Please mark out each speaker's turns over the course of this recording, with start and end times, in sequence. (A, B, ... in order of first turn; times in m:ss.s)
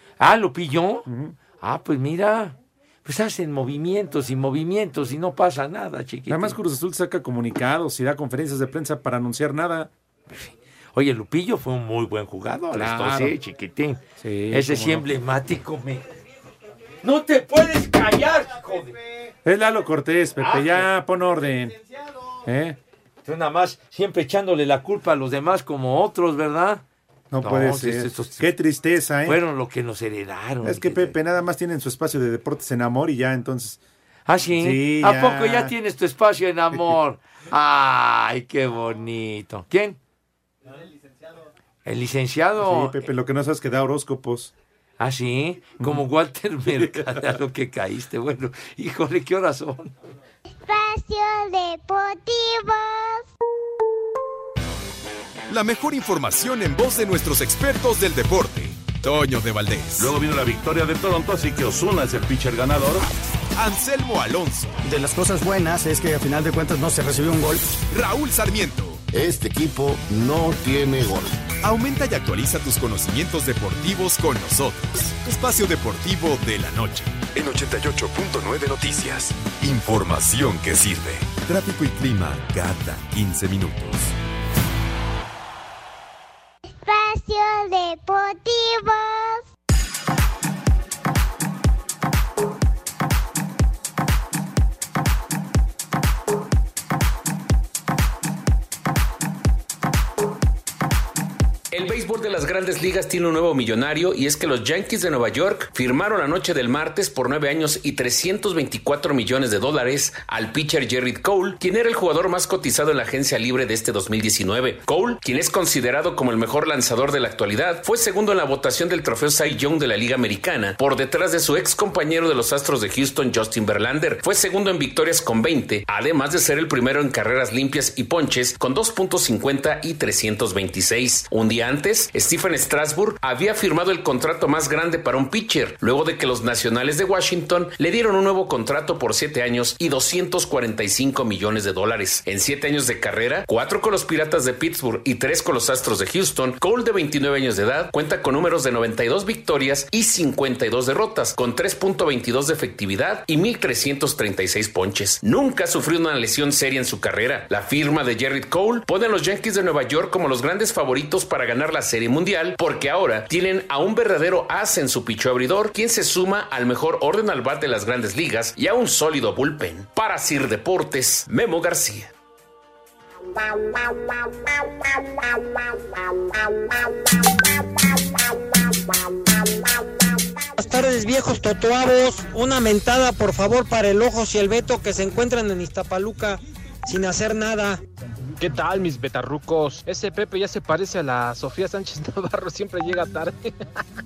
0:00.2-0:01.0 A
0:01.0-0:01.4 B
0:01.6-0:06.6 A
0:06.3-0:09.9 B
0:10.3-0:16.1 A
0:12.7-0:13.4 B
0:14.2-0:15.1 B
0:17.0-0:19.0 A
0:19.4-0:21.8 B
0:20.4-0:20.9 A
0:22.4-0:22.8 B
0:23.2-0:26.8 A
0:27.3-0:29.4 B
0:27.4-0:28.5 A
0:29.2-0:31.1 A
0:30.6-0:33.8 B
0:34.3-0:40.0 A
0:34.5-0:35.7 B
0:41.8-0:43.0 A
0:42.6-0:44.5 B
0:45.0-0:49.9 A
0:46.7-0:47.2 B
0:50.5-0:53.2 C
0:55.5-1:00.1 D
1:00.0-1:00.2 E
1:00.3-1:02.7 F
1:03.6-1:04.8 D
1:04.8-1:07.8 E
1:07.9-1:09.0 D
1:09.1-1:11.4 E
1:11.6-1:24.1 D
1:26.6-1:29.4 C
1:41.7-2:52.1 G
3:00.6-3:07.8 H
3:08.9-3:09.4 I
3:10.8-3:13.3 I